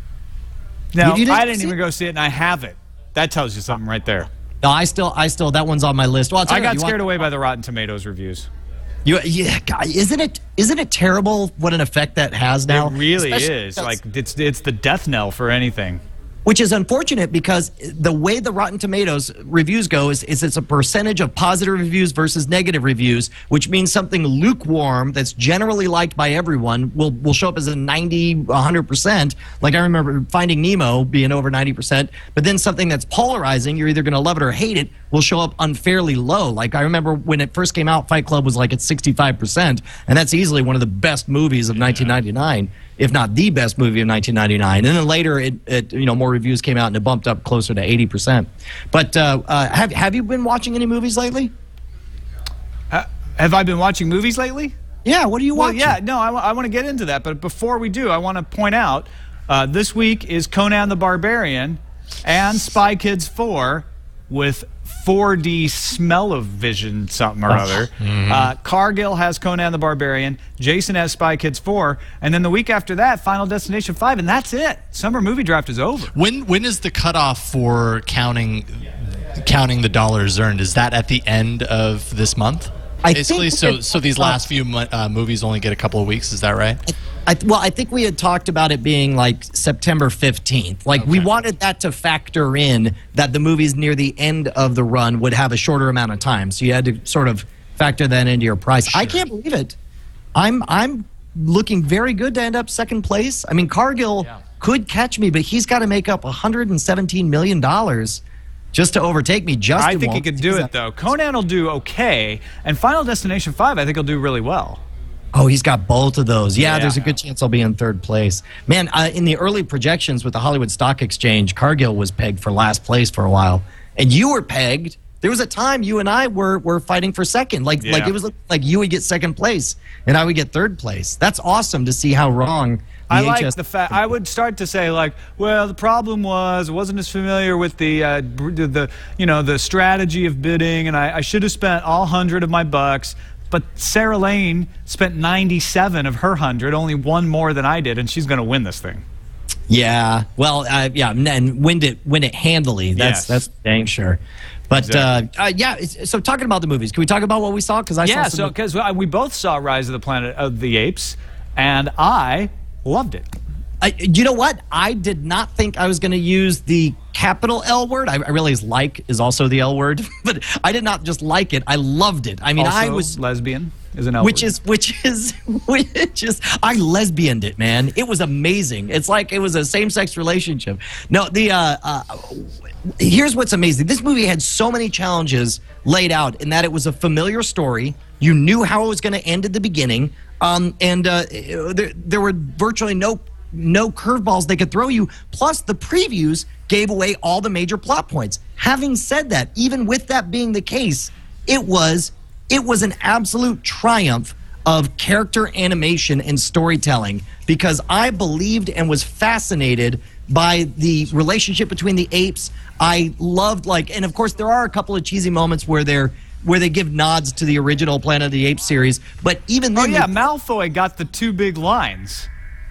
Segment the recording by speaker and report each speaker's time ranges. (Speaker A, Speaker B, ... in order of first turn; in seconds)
Speaker A: 0.9-4.3, 6.5-8.5, 12.7-16.0, 52.9-54.7, 55.5-76.1, 109.8-114.8, 116.6-117.1, 127.8-128.1, 133.1-149.0, 153.0-153.5, 154.8-155.1, 158.0-163.3, 172.6-174.5, 219.8-222.3
Speaker B: 1.0-1.7, 4.6-7.1, 9.1-14.0, 16.4-51.5, 55.0-56.0, 83.0-84.5, 86.9-99.8, 100.3-108.2, 108.7-110.7, 115.3-134.0, 149.7-158.5, 163.8-173.2, 174.2-220.1
Speaker C: 67.5-68.5, 76.2-86.8, 91.0-91.3, 98.9-99.2